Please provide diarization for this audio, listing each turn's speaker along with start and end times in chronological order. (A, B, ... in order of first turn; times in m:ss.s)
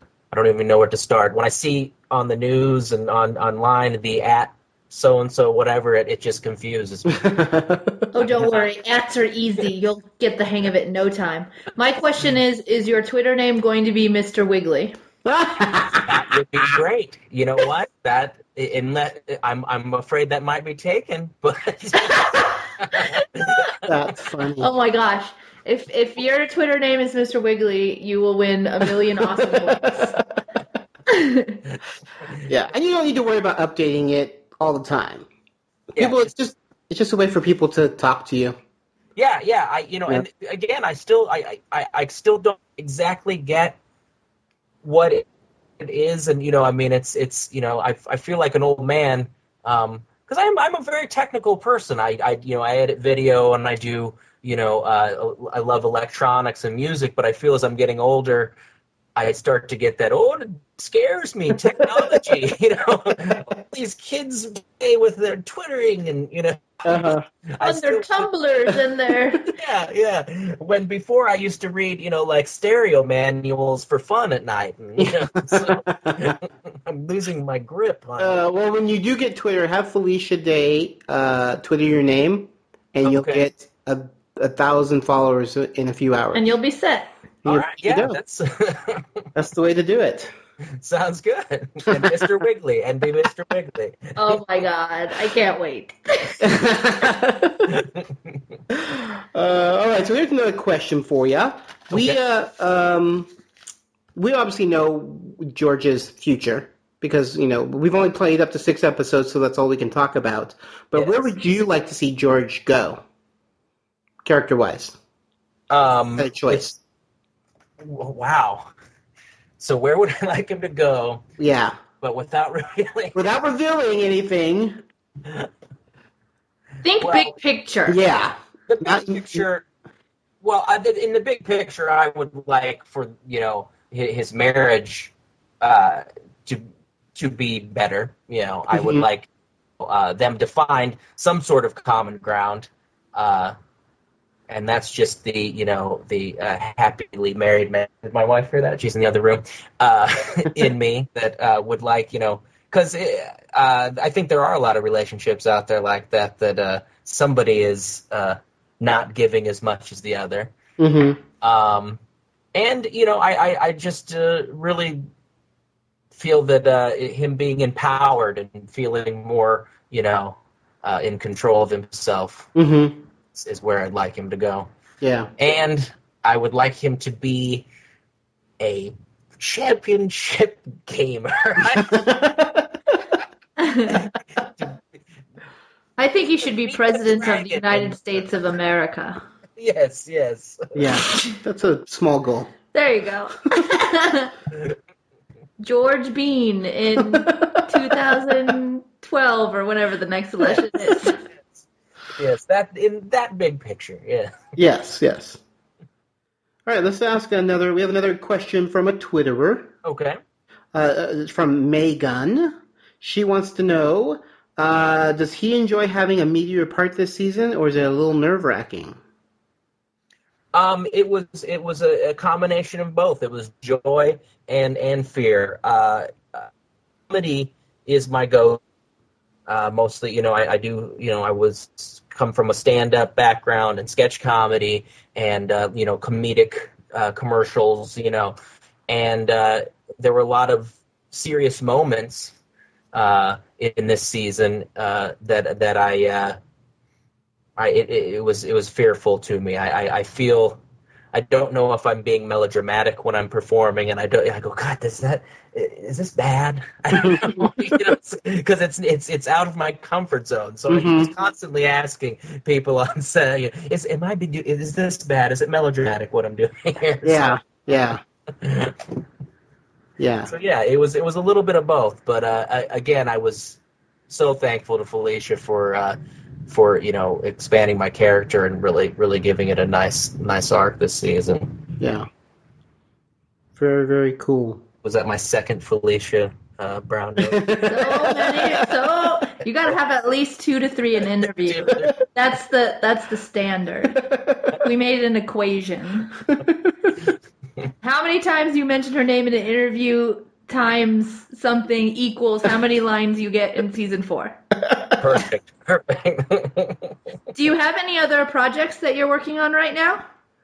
0:00.3-0:07.1 A
0:07.1-0:08.1 B
0:08.1-0:15.0 C
0:15.2-0:16.2 B
0:16.1-0:23.5 A
0:22.2-0:22.4 C
0:23.8-0:24.7 B
0:24.6-0:30.1 C
0:29.2-0:30.2 B
0:31.1-0:31.6 C
0:32.5-0:35.3 B
0:36.0-0:36.3 A
0:36.0-0:38.6 B
0:39.2-0:43.8 A
0:44.8-0:45.2 A
0:45.8-0:58.6 A
0:59.2-1:08.3 A
1:06.8-1:07.2 B
1:07.6-1:09.4 C
1:09.6-1:18.4 A
1:15.0-1:16.3 B
1:18.2-1:26.5 B
1:23.0-1:23.4 A
1:26.3-1:27.1 C
1:27.4-1:28.2 B
1:27.5-1:29.2 A
1:29.4-1:30.3 B
1:30.8-1:34.4 A
1:34.2-1:36.4 C
1:36.4-1:37.7 B
1:38.7-1:43.3 B
1:41.9-1:42.2 A
1:44.2-1:53.0 B
1:51.0-1:51.3 A
1:54.2-1:55.0 B
1:55.7-1:56.7 A
1:56.2-1:56.8 B
1:57.8-1:58.7 A
1:59.6-2:01.2 A
2:01.4-2:01.8 B
2:02.0-2:03.3 A
2:03.2-2:04.8 B
2:06.8-2:08.0 C
2:07.0-2:07.3 A
2:07.9-2:09.4 B
2:08.7-2:09.6 A
2:10.4-2:19.3 A
2:18.7-2:19.1 B
2:19.8-2:23.6 A
2:24.5-2:40.5 A
2:40.8-2:41.2 B
2:41.4-2:42.0 A
2:42.6-2:45.0 A
2:46.1-2:52.5 A
2:52.6-2:53.0 B
2:53.3-2:54.7 A
2:55.0-2:55.3 B
2:55.4-2:57.7 A
2:58.6-3:02.0 A
3:01.7-3:02.7 B
3:03.6-3:04.0 C
3:04.4-3:04.8 A
3:06.0-3:09.2 C
3:06.7-3:08.2 A
3:09.6-3:10.9 A
3:10.8-3:12.5 B
3:12.7-3:14.3 C
3:15.6-3:21.2 C
3:17.1-3:17.8 B
3:22.2-3:24.3 A
3:24.6-3:25.4 B
3:26.7-3:29.7 B
3:29.8-3:30.2 A
3:30.7-3:39.0 B
3:40.5-3:46.5 A
3:47.1-3:48.6 A
3:49.5-3:58.4 A
3:58.9-4:02.3 A
4:02.9-4:06.4 A
4:07.6-4:10.6 A
4:11.1-4:27.7 A
4:16.9-4:17.6 B
4:20.7-4:21.1 B
4:27.0-4:28.0 B
4:28.4-4:28.7 A
4:30.0-4:30.3 B
4:30.3-4:33.6 A
4:34.1-4:36.0 A
4:36.5-4:41.6 A
4:41.8-4:42.1 B
4:43.6-4:44.6 B
4:44.8-4:47.6 A
4:47.2-4:48.6 B
4:47.7-4:54.0 C
4:51.4-4:51.9 A
4:53.9-4:54.6 B
4:54.6-4:56.2 C
4:57.8-5:04.4 C
5:04.7-5:04.9 B
5:05.0-5:06.9 A
5:07.3-5:10.0 C